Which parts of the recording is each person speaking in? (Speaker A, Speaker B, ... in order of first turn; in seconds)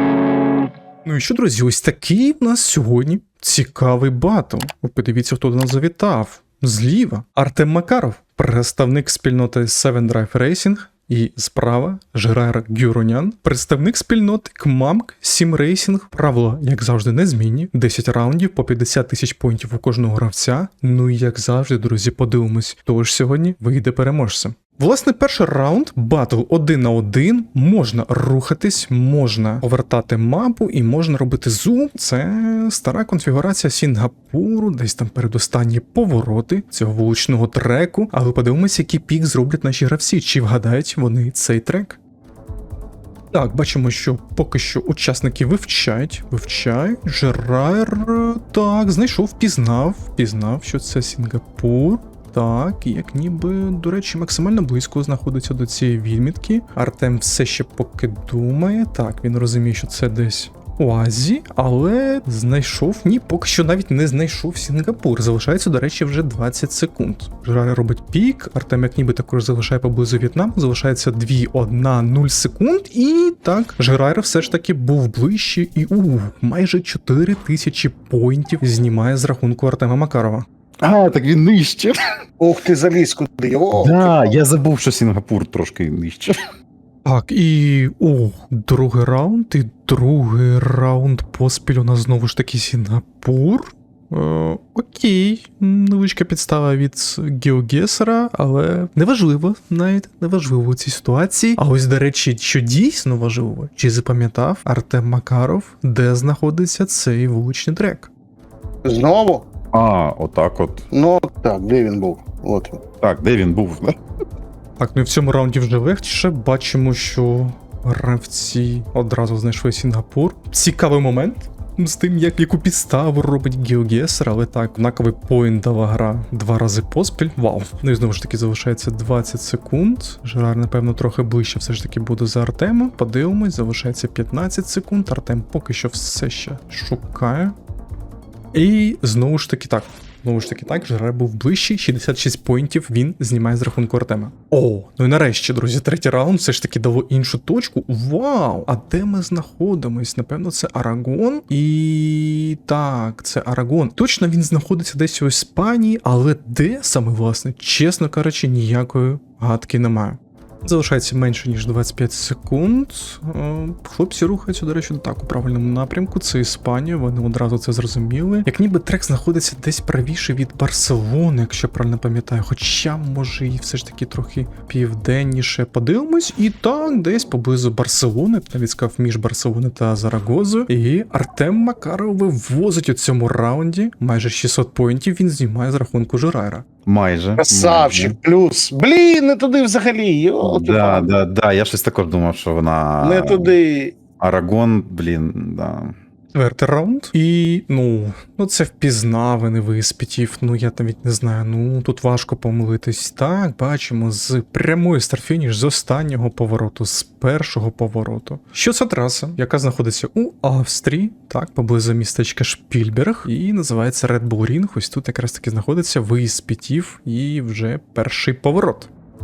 Speaker A: 1.1-42.0, 43.3-80.5, 87.0-108.1, 114.8-137.6, 138.5-186.7, 196.3-218.9
Speaker B: 80.8-82.0, 83.7-86.4, 109.7-110.8, 113.0-113.9, 186.9-188.2, 190.4-193.5, 194.2-195.9
Speaker C: 82.4-84.3, 108.8-109.5, 110.9-112.8, 187.4-191.1, 193.0-194.0